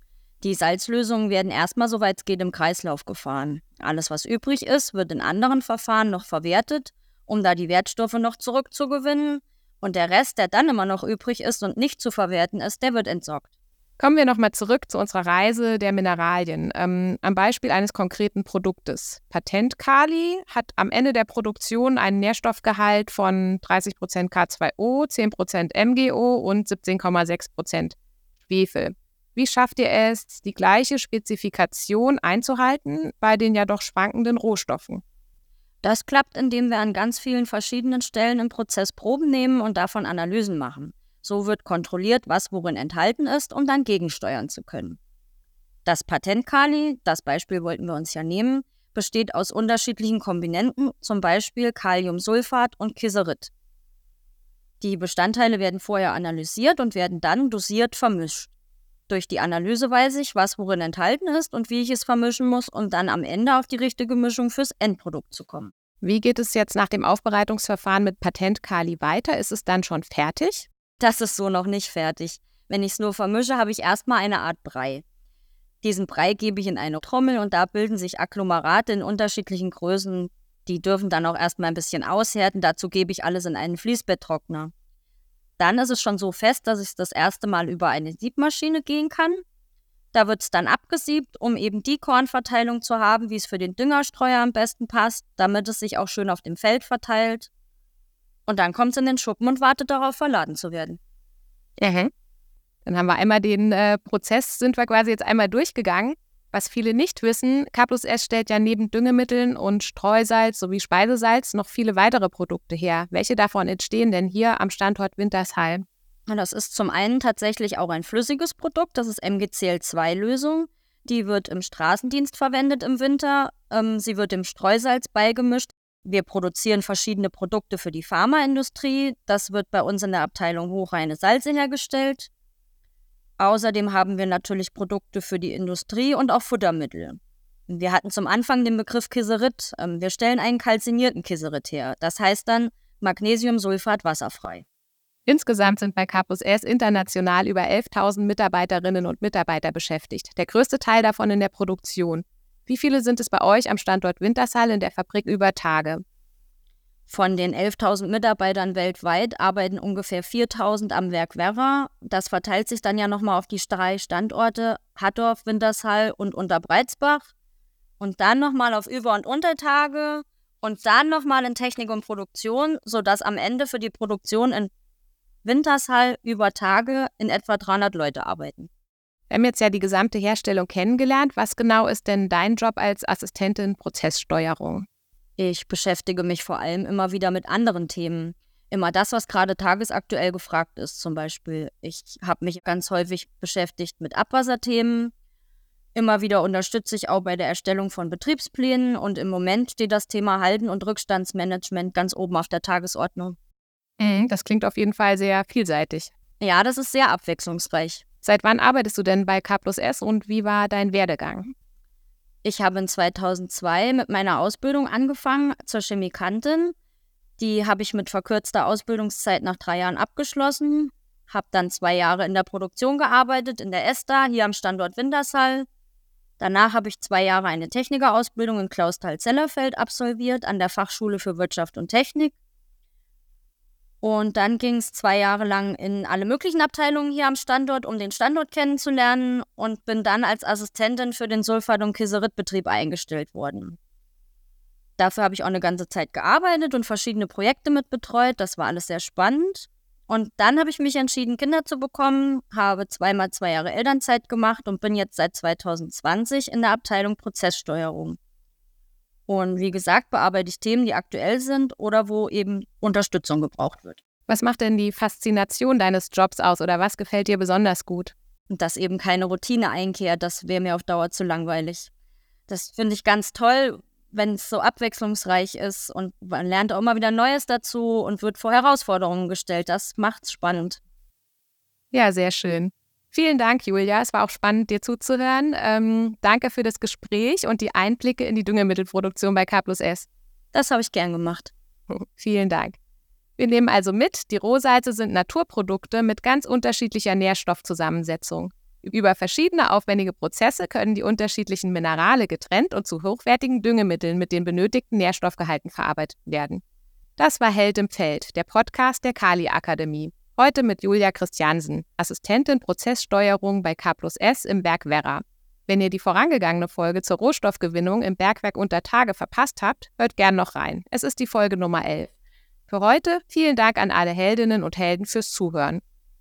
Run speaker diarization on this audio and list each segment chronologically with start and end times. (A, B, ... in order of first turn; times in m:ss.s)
0:00.4-0:13.5 A
0:14.0-0:35.0 B
0:35.8-0:45.0 A
0:45.8-0:53.5 A
0:54.8-0:58.5 A
0:59.1-1:05.7 A
1:06.0-1:10.7 B
1:11.0-1:15.0 A
1:15.8-1:24.7 A
1:25.6-1:29.4 A
1:30.1-1:37.5 A
1:38.5-1:41.0 A
1:41.8-1:42.1 B
1:42.8-1:55.8 B
1:56.3-2:12.3 A
2:13.4-2:24.6 A
2:25.3-2:36.0 B
2:37.1-2:47.3 A
2:48.0-2:54.7 A
2:55.4-2:58.7 A
2:59.3-3:04.9 B
3:05.4-3:15.1 A
3:16.0-3:23.4 A
3:24.0-3:26.1 B
3:26.4-3:28.0 A
3:28.2-3:31.5 B
3:32.4-3:36.8 A
3:37.4-3:45.7 A
3:46.4-3:52.4 A
3:54.0-4:03.8 A
4:05.0-4:18.2 A
4:19.3-4:24.0 A
4:24.3-4:28.1 B
4:28.5-4:31.9 A
4:32.5-4:40.8 A
4:41.9-4:50.1 B
4:50.5-4:51.5 A
4:51.9-4:52.8 B
4:53.4-5:06.6 B
5:07.2-5:22.1 B
5:22.7-5:25.8 B